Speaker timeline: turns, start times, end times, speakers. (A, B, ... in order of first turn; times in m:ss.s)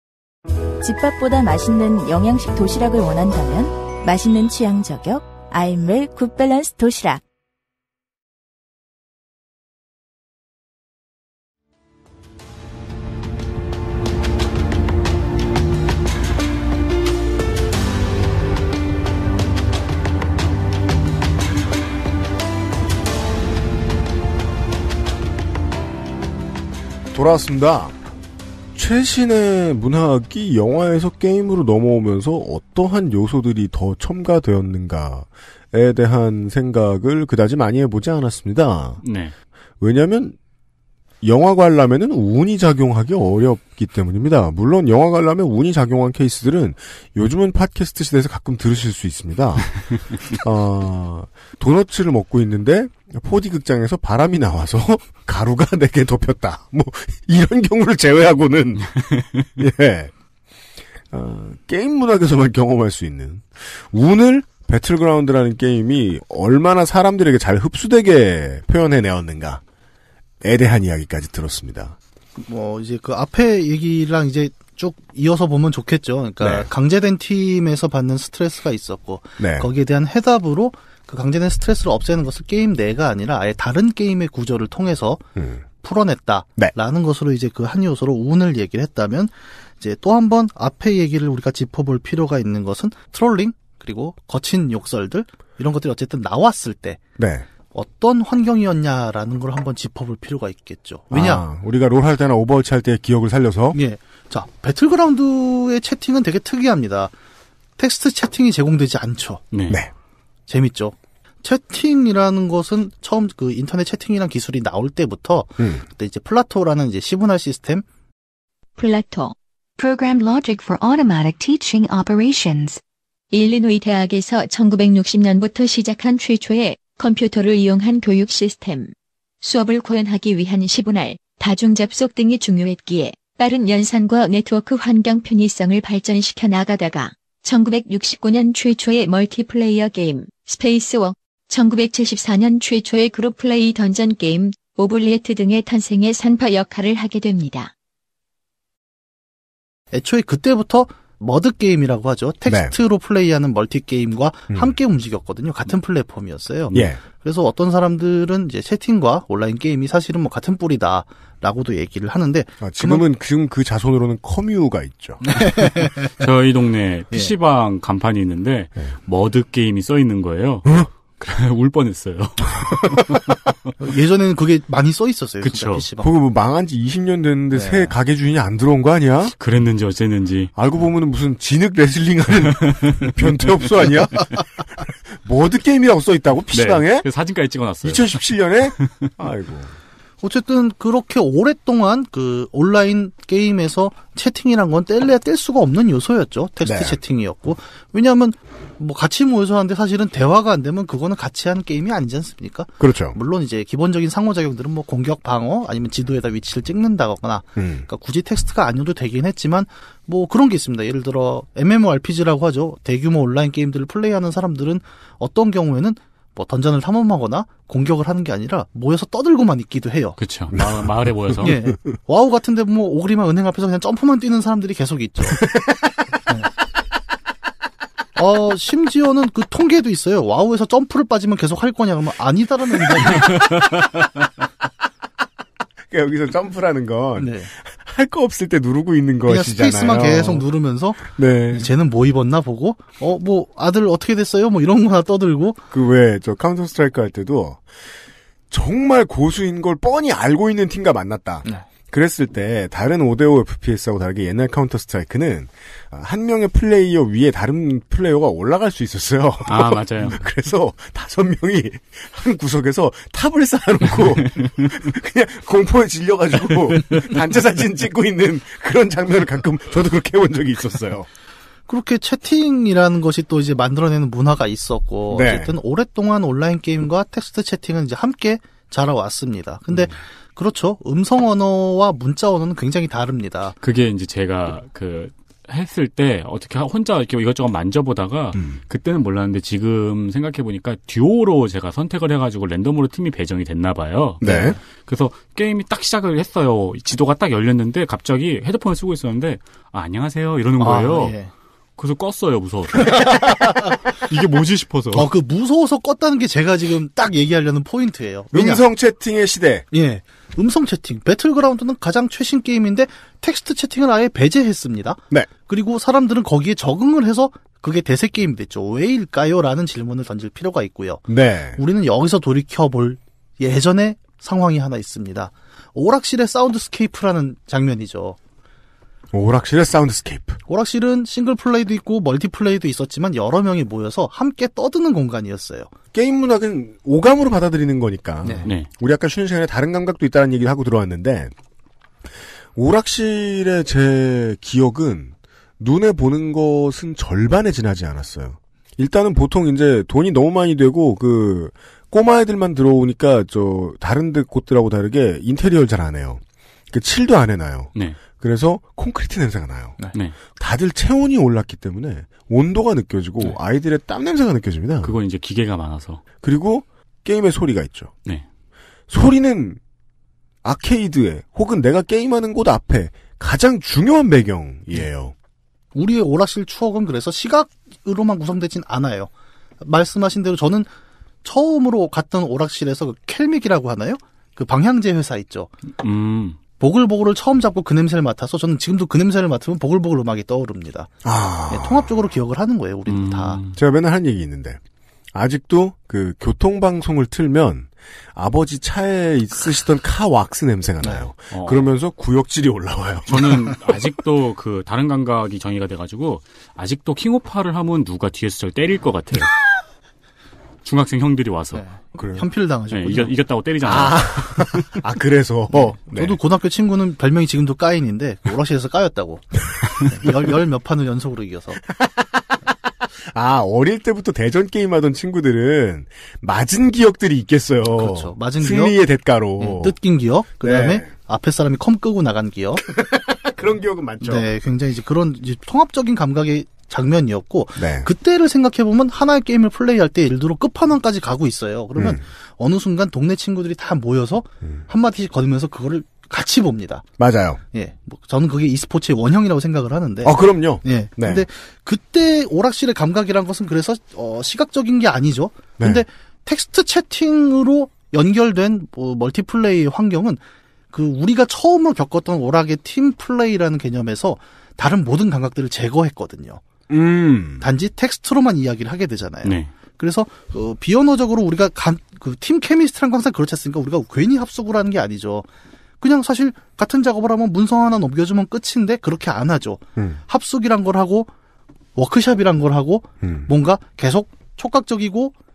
0:00.8-0:07.2 A
0:27.1-0:28.0 B
0:28.8-0:39.0 B
0:39.0-0:39.3 C
0:39.8-0:40.4 B
0:41.2-1:00.1 B
1:01.1-1:09.6 B
1:10.4-1:12.0 B
1:12.4-1:25.2 D
1:16.4-1:16.7 B
1:19.4-1:19.7 B
1:25.4-1:25.6 B
1:25.8-1:37.0 D
1:37.2-1:37.5 B
1:37.7-1:41.4 D
1:41.1-1:43.8 B
1:43.7-1:47.1 D
1:47.8-1:49.4 D
1:49.5-1:49.8 C
1:50.5-1:57.8 D
1:58.8-1:59.4 E
1:59.8-2:02.8 F
2:03.3-2:27.7 E
2:29.9-2:43.0 D
2:32.5-2:32.7 B
2:36.7-2:37.0 B
2:42.6-2:45.4 B
2:45.3-2:46.1 D
2:46.2-2:53.2 C
2:53.8-2:56.1 D
2:55.4-2:55.8 C
2:56.0-2:59.4 B
2:57.5-2:58.0 D
2:59.4-3:00.5 C
3:00.6-3:07.1 B
3:06.5-3:08.2 C
3:07.8-3:09.7 B
3:08.8-3:09.1 C
3:10.2-3:40.2 D
3:16.6-3:17.0 B
3:22.8-3:23.2 B
3:27.6-3:27.9 B
3:40.2-3:41.6 C
3:40.5-3:41.6 B
3:41.4-3:45.5 D
3:45.4-3:46.0 B
3:48.2-3:53.6 D
3:53.1-3:53.6 B
3:55.9-4:00.5 B
3:57.2-3:57.5 D
3:59.3-4:05.6 D
4:01.0-4:01.7 B
4:05.7-4:07.7 B
4:08.5-4:31.1 B
4:19.5-4:20.2 C
4:31.7-4:43.6 D
4:35.1-4:35.5 B
4:43.6-5:01.2 C
4:54.2-4:54.6 B
4:54.2-4:54.6 D
5:00.6-5:01.3 D
5:01.8-5:05.1 C
5:02.8-5:03.8 D
5:04.9-5:08.6 D
5:08.3-5:09.7 B
5:09.7-5:21.0 D
5:21.1-5:21.6 B
5:21.6-5:28.2 D
5:29.1-5:30.4 B
5:30.5-5:35.7 D
5:35.9-5:41.3 B
5:38.2-5:38.5 D
5:42.6-5:59.8 B
6:00.4-6:05.0 B
6:04.8-6:06.0 C
6:06.2-6:07.9 B
6:08.9-6:09.6 B
6:10.4-6:15.1 B
6:15.8-6:19.1 D
6:19.6-6:20.7 D
6:21.2-6:25.5 D
6:25.8-6:26.4 C
6:26.6-6:30.9 D
6:31.0-6:31.9 B
6:31.5-6:33.4 D
6:32.9-6:33.6 C
6:33.6-6:34.6 B
6:35.1-6:43.2 B
6:40.8-6:41.1 D
6:41.3-6:41.7 C
6:43.1-6:49.4 C
6:50.6-6:51.6 C
6:51.5-6:53.1 D
6:52.0-6:52.2 B
6:52.7-6:54.8 C
6:53.6-6:56.2 B
6:55.5-7:01.6 D
7:01.7-7:02.4 B
7:03.0-7:09.8 B
7:07.7-7:08.8 D
7:09.4-7:12.6 D
7:10.4-7:10.9 B
7:12.6-7:14.3 B
7:14.0-7:26.8 D
7:17.6-7:17.9 B
7:21.8-7:22.0 B
7:27.0-7:27.4 B
7:27.5-7:40.2 D
7:30.0-7:31.3 B
7:35.6-7:35.8 B
7:40.7-7:46.4 D
7:46.7-7:47.4 B
7:47.4-7:55.3 D
7:49.2-7:49.5 C
7:55.8-8:01.1 D
8:01.8-8:05.1 D
8:03.0-8:03.3 B